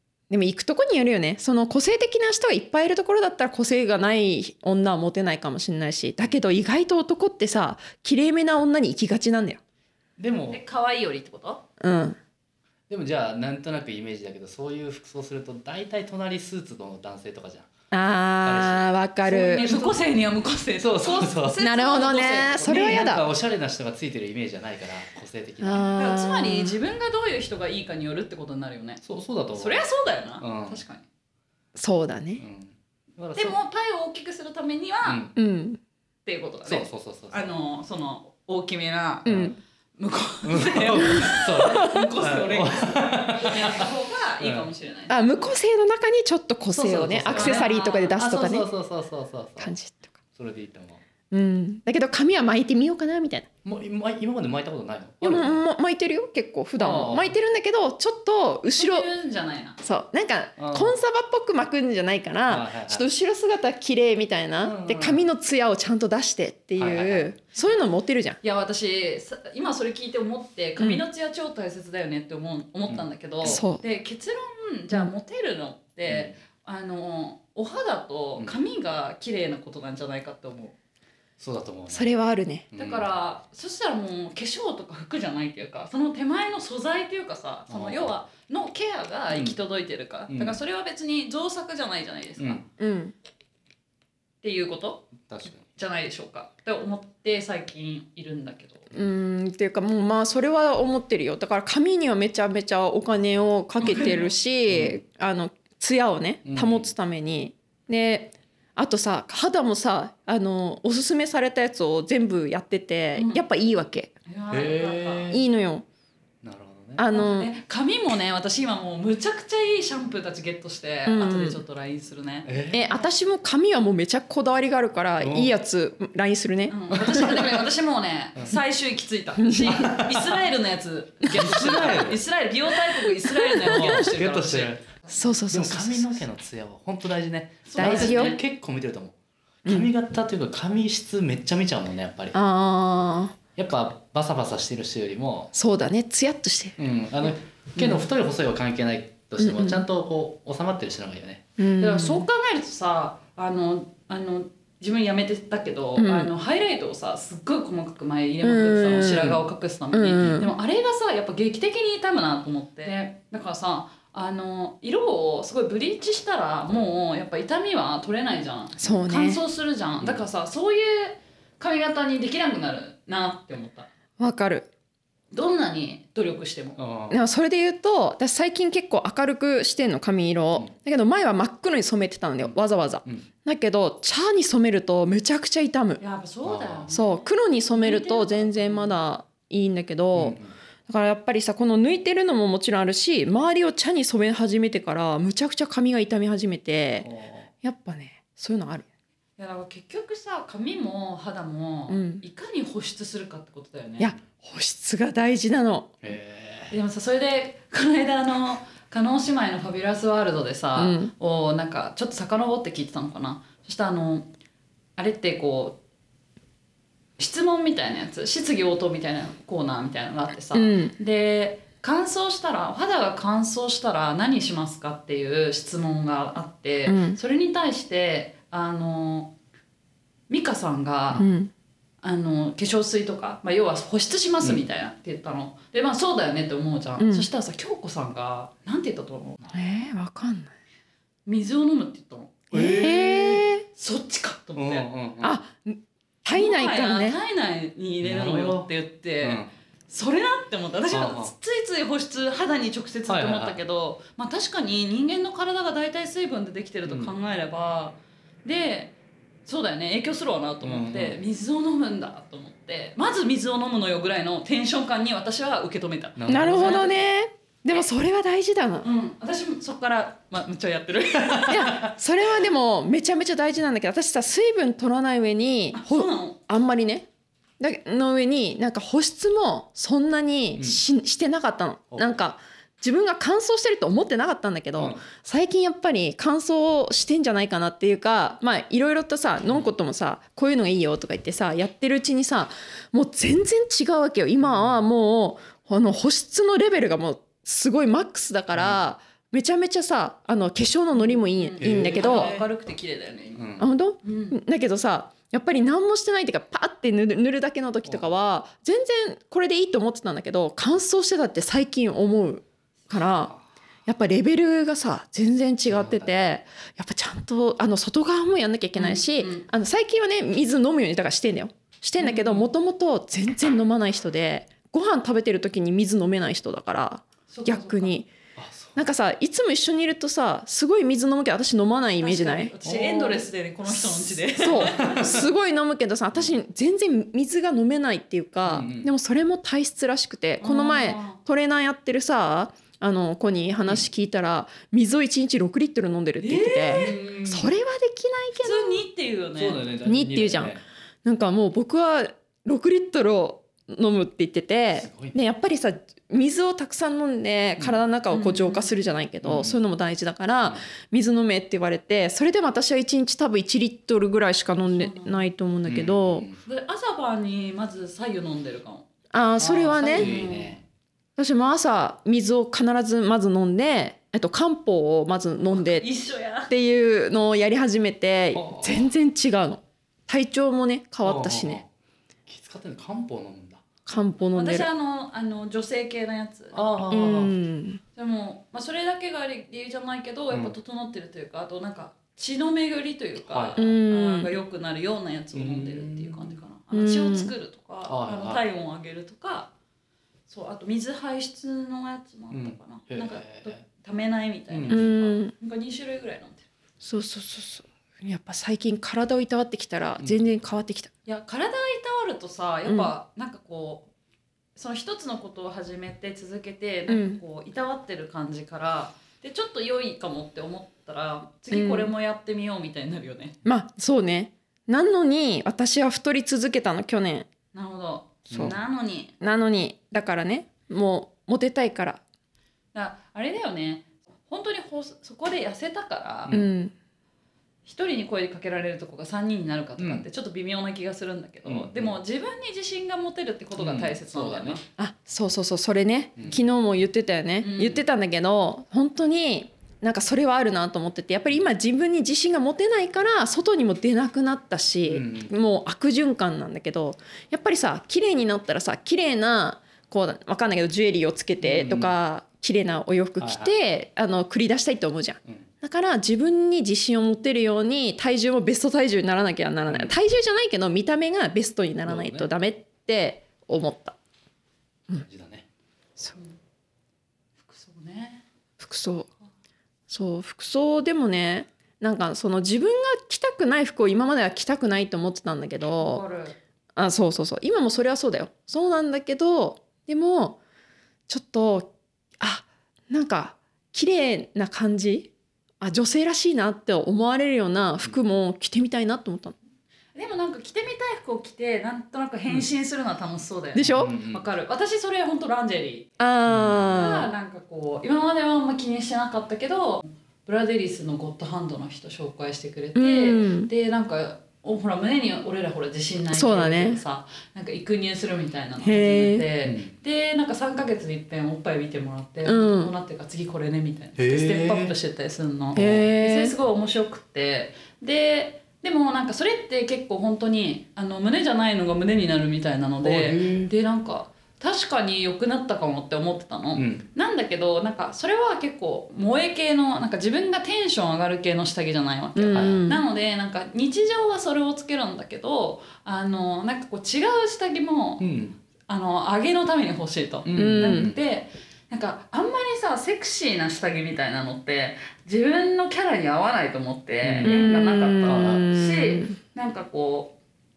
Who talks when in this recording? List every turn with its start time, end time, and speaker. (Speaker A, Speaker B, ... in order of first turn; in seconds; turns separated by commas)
Speaker A: 0.3-9.6, Speaker B: 10.2-10.6, Speaker C: 10.5-11.6, Speaker A: 11.8-12.2, Speaker B: 12.9-17.7, Speaker A: 17.9-19.9, Speaker B: 18.4-18.9, Speaker C: 19.2-23.1, Speaker B: 20.8-21.6, Speaker A: 21.6-23.2, Speaker B: 22.5-25.9, Speaker A: 25.6-26.8, Speaker C: 25.9-29.0, Speaker B: 29.0-29.9, Speaker C: 29.6-31.1, Speaker B: 30.4-30.8, Speaker A: 31.8-32.4, Speaker B: 32.4-33.6, Speaker C: 33.4-35.2, Speaker B: 35.0-35.3, Speaker A: 35.4-35.8, Speaker C: 36.2-39.3, Speaker B: 36.7-37.5, Speaker B: 39.2-39.5, Speaker A: 39.2-39.5, Speaker C: 40.0-45.2, Speaker B: 40.4-43.9, Speaker B: 44.4-44.7, Speaker A: 45.1-48.7, Speaker B: 46.7-49.7, Speaker C: 47.3-48.1, Speaker A: 49.6-50.2, Speaker B: 50.4-51.0, Speaker A: 51.3-53.5, Speaker B: 53.6-55.6, Speaker A: 55.2-59.1, Speaker B: 56.8-57.4, Speaker C: 58.8-59.8, Speaker A: 59.8-68.4, Speaker B: 60.6-61.0, Speaker B: 62.5-63.1, Speaker B: 64.6-65.2, Speaker B: 66.8-67.3, Speaker C: 68.4-80.7, Speaker B: 72.9-73.6, Speaker A: 73.5-73.8, Speaker B: 76.1-76.3, Speaker B: 81.4-82.1, Speaker A: 81.9-82.7, Speaker B: 82.7-83.1, Speaker C: 82.8-92.6, Speaker B: 87.7-88.1, Speaker B: 89.3-89.6, Speaker B: 90.3-90.6, Speaker B: 92.4-92.6, Speaker A: 92.8-93.2, Speaker C: 94.4-95.1, Speaker B: 95.3-95.7, Speaker C: 95.7-98.9, Speaker A: 98.9-114.1, Speaker C: 103.8-104.3, Speaker B: 104.7-105.0, Speaker B: 106.5-106.9, Speaker C: 113.2-113.4, Speaker C: 114.3-115.3, Speaker B: 114.5-115.4, Speaker A: 115.3-115.8, Speaker B: 116.4-117.1, Speaker A: 117.0-117.5, Speaker C: 117.1-123.0, Speaker A: 121.1-121.6, Speaker B: 122.5-122.9, Speaker A: 122.7-126.8, Speaker B: 125.2-125.5, Speaker C: 126.7-135.2, Speaker B: 126.9-127.7, Speaker A: 129.4-129.9, Speaker B: 129.7-130.4, Speaker B: 131.3-132.2, Speaker A: 133.4-134.0, Speaker B: 133.7-134.8, Speaker A: 135.1-136.2, Speaker B: 135.5-142.4, Speaker C: 137.7-138.4, Speaker A: 137.8-138.4, Speaker A: 142.3-143.4, Speaker B: 143.6-145.5, Speaker A: 145.5-146.8, Speaker B: 146.8-151.4, Speaker A: 149.4-149.8, Speaker A: 151.6-152.3, Speaker C: 151.8-173.9, Speaker A: 156.0-156.3, Speaker A: 158.4-159.4, Speaker B: 159.1-159.4, Speaker A: 159.9-160.5, Speaker A: 168.8-169.4, Speaker A: 174.2-174.7, Speaker C: 175.3-176.8, Speaker B: 176.8-177.3, Speaker A: 177.1-186.0, Speaker B: 182.4-183.3, Speaker C: 186.0-189.0, Speaker B: 186.4-186.9, Speaker A: 186.9-197.1, Speaker B: 190.1-190.5, Speaker B: 197.0-197.5, Speaker A: 197.6-198.9, Speaker C: 199.4-204.2, Speaker A: 201.9-202.2, Speaker A: 204.0-205.9, Speaker B: 206.0-206.7, Speaker C: 206.7-214.3, Speaker A: 210.8-211.1, Speaker C: 215.0-215.8, Speaker C: 217.2-229.3, Speaker A: 220.5-220.9, Speaker A: 226.9-227.2, Speaker C: 230.3-231.3, Speaker A: 231.2-231.5, Speaker C: 232.0-239.4, Speaker A: 237.0-237.3, Speaker A: 239.5-240.5, Speaker C: 241.3-244.9, Speaker B: 242.5-243.4, Speaker A: 242.5-243.6, Speaker B: 244.6-245.4, Speaker A: 245.2-247.2, Speaker C: 246.3-258.9, Speaker B: 248.0-248.7, Speaker B: 249.2-249.5, Speaker B: 250.9-251.3, Speaker B: 253.1-253.6, Speaker B: 256.9-257.1, Speaker C: 259.5-267.0, Speaker B: 260.6-261.2, Speaker B: 266.2-266.9, Speaker A: 266.3-268.9, Speaker C: 268.8-271.9, Speaker B: 271.2-271.9, Speaker A: 271.5-277.1, Speaker C: 275.7-276.4, Speaker A: 277.6-302.3, Speaker B: 280.6-280.8, Speaker B: 281.9-282.2, Speaker B: 284.8-285.0, Speaker B: 294.4-294.8, Speaker B: 298.5-298.8, Speaker C: 300.9-303.4, Speaker B: 301.6-302.5, Speaker B: 303.4-303.7, Speaker A: 303.6-313.3, Speaker C: 304.0-304.4, Speaker B: 307.9-308.1, Speaker A: 313.9-328.1, Speaker B: 315.7-316.2, Speaker C: 318.8-319.5, Speaker C: 322.0-322.5, Speaker C: 327.3-328.0, Speaker B: 328.4-328.9, Speaker A: 328.8-332.5, Speaker C: 332.0-335.1, Speaker B: 332.6-333.2, Speaker A: 333.7-348.8, Speaker B: 334.5-335.2, Speaker B: 338.5-338.9, Speaker C: 340.4-341.2, Speaker C: 346.2-347.1, Speaker B: 346.7-347.5, Speaker C: 348.4-349.6, Speaker B: 349.4-350.6, Speaker A: 349.8-366.3, Speaker B: 354.8-355.2, Speaker C: 358.1-358.7, Speaker B: 359.2-359.6, Speaker C: 364.6-365.3, Speaker B: 365.7-366.4, Speaker C: 366.5-368.9, Speaker A: 369.1-370.1, Speaker B: 369.4-370.6, Speaker C: 369.9-370.6, Speaker A: 371.2-375.9, Speaker C: 375.4-376.5, Speaker A: 376.5-381.6, Speaker B: 378.4-378.9, Speaker B: 381.0-381.7, Speaker B: 382.3-383.6, Speaker A: 383.9-384.7, Speaker C: 384.4-386.6, Speaker B: 386.5-387.3, Speaker A: 386.9-387.8, Speaker C: 388.0-399.5, Speaker B: 390.3-390.6, Speaker B: 393.2-393.6, Speaker A: 393.6-394.3, Speaker B: 395.3-396.4, Speaker A: 396.7-397.3, Speaker B: 397.9-398.4, Speaker C: 400.3-406.4, Speaker B: 402.3-403.6, Speaker B: 404.5-404.9, Speaker A: 404.7-405.3, Speaker A: 406.8-410.9, Speaker B: 410.0-410.3, Speaker C: 411.1-413.9, Speaker A: 412.7-412.9, Speaker C: 414.6-423.4, Speaker A: 416.9-417.2, Speaker A: 421.5-421.9, Speaker A: 423.4-427.3, Speaker C: 427.5-429.1, Speaker A: 428.3-428.6, Speaker B: 428.3-428.6, Speaker A: 429.2-432.0, Speaker C: 432.7-436.3, Speaker A: 436.3-436.7, Speaker C: 437.6-444.6, Speaker B: 439.8-440.1, Speaker B: 441.4-441.9, Speaker B: 443.6-444.6, Speaker A: 444.8-474.0, Speaker C: 447.4-447.8, Speaker B: 454.9-455.3, Speaker B: 461.4-461.9, Speaker B: 463.2-463.5, Speaker B: 469.7-469.9, Speaker B: 471.9-472.3, Speaker B: 475.0-475.5, Speaker C: 477.4-478.2, Speaker A: 478.6-479.1, Speaker A: 479.9-486.0, Speaker C: 485.8-486.4, Speaker A: 486.8-490.4, Speaker A: 491.1-499.4, Speaker C: 499.9-505.9, Speaker A: 503.6-503.9, Speaker B: 503.7-504.3, Speaker A: 506.0-507.1, Speaker B: 506.3-506.7, Speaker C: 506.7-548.0, Speaker A: 512.8-513.5, Speaker A: 516.1-516.8, Speaker A: 518.6-519.3, Speaker B: 519.4-519.7, Speaker A: 522.2-522.7, Speaker B: 524.0-524.7, Speaker B: 525.5-525.9, Speaker A: 525.5-526.3, Speaker B: 532.8-533.5, Speaker B: 536.5-536.8, Speaker A: 542.1-542.8, Speaker B: 542.3-542.6, Speaker B: 548.0-548.4, Speaker C: 548.7-560.2, Speaker B: 550.2-551.0, Speaker A: 550.4-550.9, Speaker B: 557.0-557.4, Speaker A: 557.2-559.2, Speaker B: 558.1-558.4